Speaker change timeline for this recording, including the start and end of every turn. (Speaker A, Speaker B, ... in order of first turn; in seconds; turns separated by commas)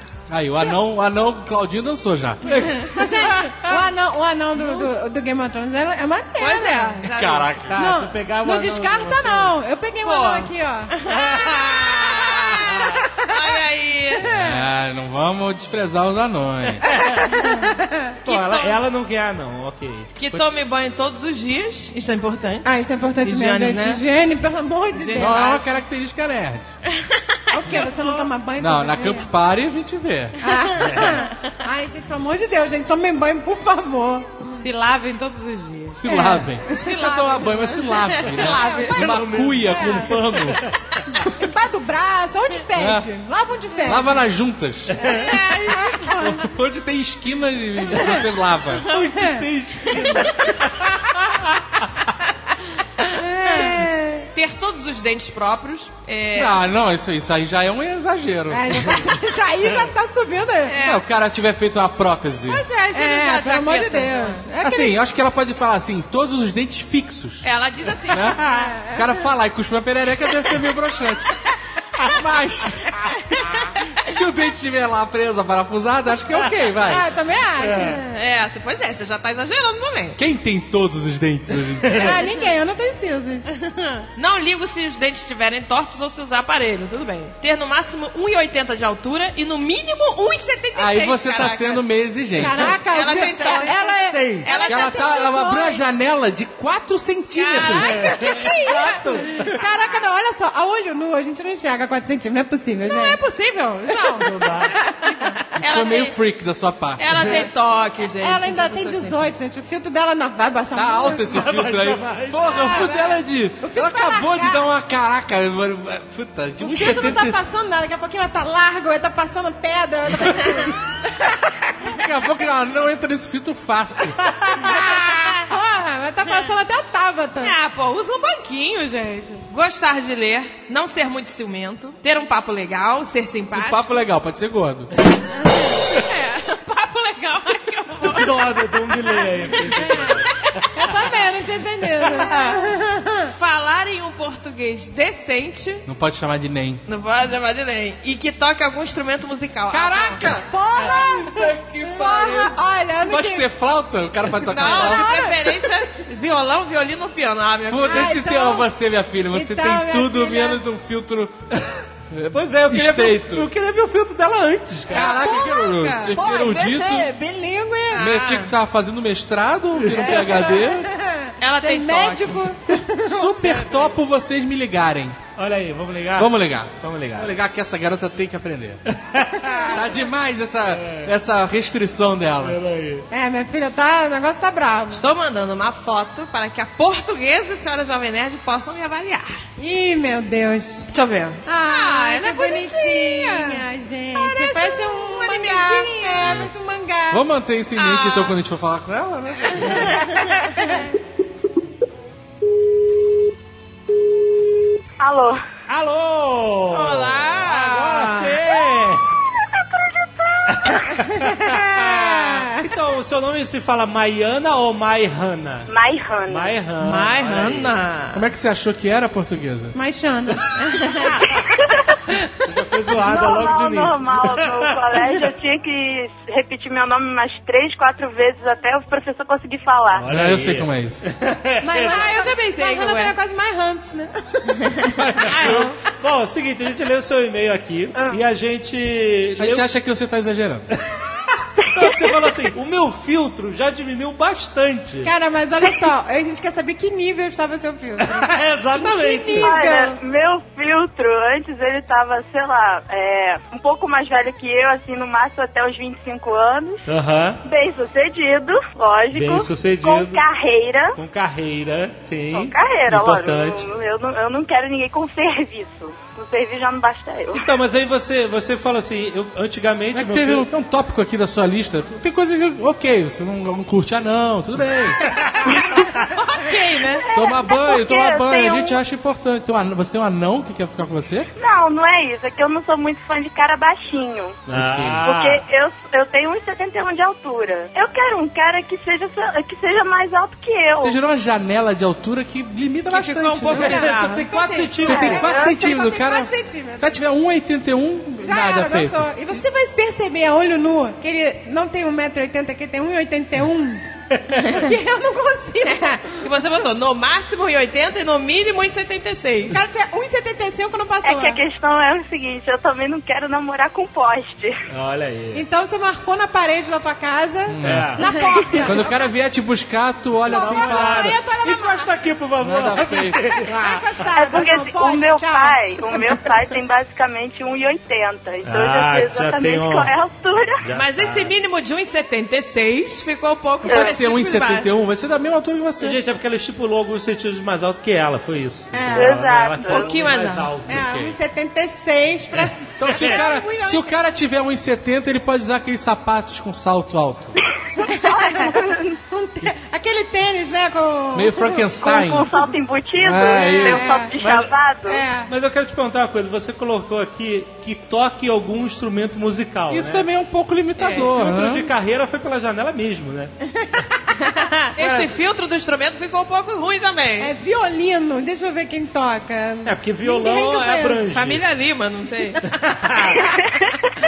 Speaker A: 0.3-2.4, Speaker B: 2.4-3.6, Speaker C: 2.9-7.0, Speaker D: 6.4-7.6, Speaker A: 7.1-7.8, Speaker B: 7.4-9.6, Speaker C: 7.7-10.9, Speaker D: 10.0-14.2, Speaker B: 11.1-12.9, Speaker C: 13.0-13.3, Speaker C: 14.2-14.6, Speaker A: 14.2-16.8, Speaker B: 16.8-17.5, Speaker C: 17.3-18.1, Speaker B: 18.2-20.4, Speaker D: 18.2-18.8, Speaker D: 20.2-22.7, Speaker C: 22.6-25.4, Speaker D: 23.2-24.0, Speaker D: 24.9-25.6, Speaker A: 25.2-26.7, Speaker D: 27.0-28.3, Speaker C: 27.5-29.3, Speaker A: 28.6-30.4, Speaker C: 30.4-34.5, Speaker B: 30.8-31.2, Speaker D: 34.5-36.0, Speaker A: 36.0-40.6, Speaker C: 36.1-37.5, Speaker D: 36.7-39.0, Speaker C: 38.3-40.1, Speaker B: 38.9-40.7, Speaker C: 41.2-44.2, Speaker A: 42.7-43.0, Speaker A: 43.9-45.0, Speaker B: 44.9-45.4, Speaker D: 45.0-46.4, Speaker C: 45.1-46.0, Speaker B: 46.2-46.5, Speaker A: 46.4-48.9, Speaker B: 48.8-51.3, Speaker C: 49.1-49.4, Speaker D: 53.0-56.6, Speaker C: 53.5-53.8, Speaker A: 56.3-58.9, Speaker C: 58.5-60.8, Speaker D: 60.7-61.0, Speaker A: 60.8-62.6, Speaker D: 62.5-64.4, Speaker C: 62.9-65.0, Speaker A: 64.6-67.5, Speaker D: 67.4-68.4, Speaker A: 68.1-71.3, Speaker C: 68.4-69.0, Speaker A: 72.1-73.0, Speaker A: 73.9-77.1, Speaker C: 76.8-78.0, Speaker B: 77.6-78.0, Speaker D: 77.7-80.2, Speaker A: 80.2-82.2, Speaker B: 81.8-82.1, Speaker C: 81.9-83.5, Speaker D: 83.6-91.8, Speaker A: 90.8-92.8, Speaker C: 92.4-95.8, Speaker D: 92.9-95.6, Speaker B: 94.0-94.5, Speaker A: 94.6-98.1, Speaker D: 97.3-99.8, Speaker B: 97.8-99.5, Speaker C: 98.8-103.2, Speaker D: 102.8-106.2, Speaker B: 104.2-104.8, Speaker A: 105.6-107.3, Speaker D: 107.0-109.3, Speaker B: 107.1-107.4, Speaker C: 108.2-111.5, Speaker A: 110.7-117.4, Speaker B: 111.3-113.0, Speaker C: 112.5-114.6, Speaker C: 116.6-120.7, Speaker A: 121.9-124.2, Speaker C: 124.5-127.5, Speaker D: 127.4-134.0, Speaker A: 133.5-134.9, Speaker D: 136.0-139.2, Speaker B: 138.0-140.8, Speaker C: 139.7-140.2, Speaker C: 140.7-143.3, Speaker D: 143.3-145.8, Speaker A: 145.9-146.8, Speaker D: 146.9-150.3, Speaker A: 149.7-155.1, Speaker C: 150.5-153.5, Speaker D: 154.5-158.2, Speaker C: 154.6-155.5, Speaker A: 157.7-161.4, Speaker C: 157.8-158.7, Speaker C: 159.3-160.6, Speaker A: 162.1-163.5, Speaker B: 162.3-165.2, Speaker A: 164.9-167.1, Speaker D: 164.9-166.2, Speaker C: 164.9-168.0, Speaker D: 167.9-168.5, Speaker A: 167.9-170.9, Speaker B: 169.8-170.2, Speaker C: 169.9-173.8, Speaker D: 171.4-172.4, Speaker A: 173.1-175.2, Speaker B: 175.3-177.3, Speaker A: 176.2-178.8, Speaker B: 178.9-179.6, Speaker C: 179.4-179.7, Speaker A: 179.7-182.6, Speaker B: 180.7-181.1, Speaker B: 182.4-183.0, Speaker C: 183.1-185.0, Speaker D: 184.9-189.4, Speaker C: 189.6-190.9, Speaker D: 190.9-193.6, Speaker C: 191.4-197.2, Speaker D: 194.1-196.4, Speaker A: 197.1-200.1, Speaker D: 197.8-198.3, Speaker D: 199.6-200.3, Speaker C: 200.4-200.9, Speaker E: 205.0-205.4, Speaker B: 205.7-209.0, Speaker D: 206.7-208.4, Speaker E: 210.2-210.5, Speaker B: 210.5-215.7, Speaker C: 211.0-212.6, Speaker E: 215.7-216.6, Speaker B: 216.3-217.8, Speaker D: 216.8-218.2, Speaker A: 218.1-219.7, Speaker C: 219.7-221.0, Speaker B: 222.4-225.1, Speaker E: 223.0-230.1, Speaker B: 229.9-232.0, Speaker A: 230.1-231.0, Speaker C: 231.6-234.1, Speaker D: 231.8-233.1, Speaker D: 234.7-235.7, Speaker A: 234.9-235.7, Speaker B: 235.3-239.7, Speaker E: 237.9-238.2, Speaker A: 239.4-240.7, Speaker B: 241.7-245.1, Speaker C: 245.0-250.0, Speaker B: 248.0-249.6, Speaker E: 249.4-256.9, Speaker B: 256.9-257.4, Speaker E: 257.4-261.0, Speaker B: 259.1-260.2, Speaker B: 260.9-263.6, Speaker E: 262.3-267.4, Speaker B: 267.3-270.5, Speaker A: 269.9-275.0, Speaker D: 276.1-277.0, Speaker E: 277.0-278.8, Speaker A: 277.1-281.3, Speaker E: 281.4-284.4, Speaker B: 284.5-285.4, Speaker A: 284.5-285.0, Speaker E: 285.0-291.0, Speaker A: 290.8-293.8, Speaker D: 292.9-294.2, Speaker C: 293.5-297.0, Speaker B: 293.6-295.1, Speaker A: 294.8-299.1, Speaker E: 295.0-295.6, Speaker C: 298.2-303.8, Speaker C: 304.5-306.2, Speaker D: 305.7-309.6, Speaker C: 309.5-311.4, Speaker E: 311.0-314.6, Speaker B: 314.7-315.4, Speaker C: 315.3-319.1, Speaker A: 317.5-317.9, Speaker B: 317.6-318.2, Speaker A: 318.6-321.1, Speaker B: 320.2-324.1, Speaker C: 320.3-321.9, Speaker A: 322.4-323.2, Speaker C: 323.4-325.9, Speaker E: 324.1-330.6, Speaker B: 328.4-329.9, Speaker B: 330.6-331.3, Speaker D: 330.7-334.7, Speaker E: 333.7-333.9, Speaker A: 333.7-336.0, Speaker B: 335.8-341.1, Speaker C: 338.7-339.2, Speaker E: 338.9-340.0, Speaker D: 339.6-340.5, Speaker C: 340.7-343.9, Speaker A: 342.8-347.3, Speaker E: 347.8-348.9, Speaker C: 347.9-348.5, Speaker C: 349.1-351.7, Speaker A: 351.1-352.3, Speaker E: 351.8-355.1, Speaker A: 353.0-354.0, Speaker C: 353.4-354.1, Speaker B: 354.2-354.5, Speaker C: 354.9-355.3, Speaker B: 355.3-360.1, Speaker A: 359.7-361.7, Speaker D: 360.8-361.0, Speaker B: 360.9-363.3, Speaker C: 364.1-364.4, Speaker D: 364.4-367.3, Speaker B: 364.8-365.1, Speaker C: 367.2-371.0, Speaker B: 369.6-371.4, Speaker D: 371.1-372.4, Speaker B: 372.5-373.2, Speaker E: 373.2-373.7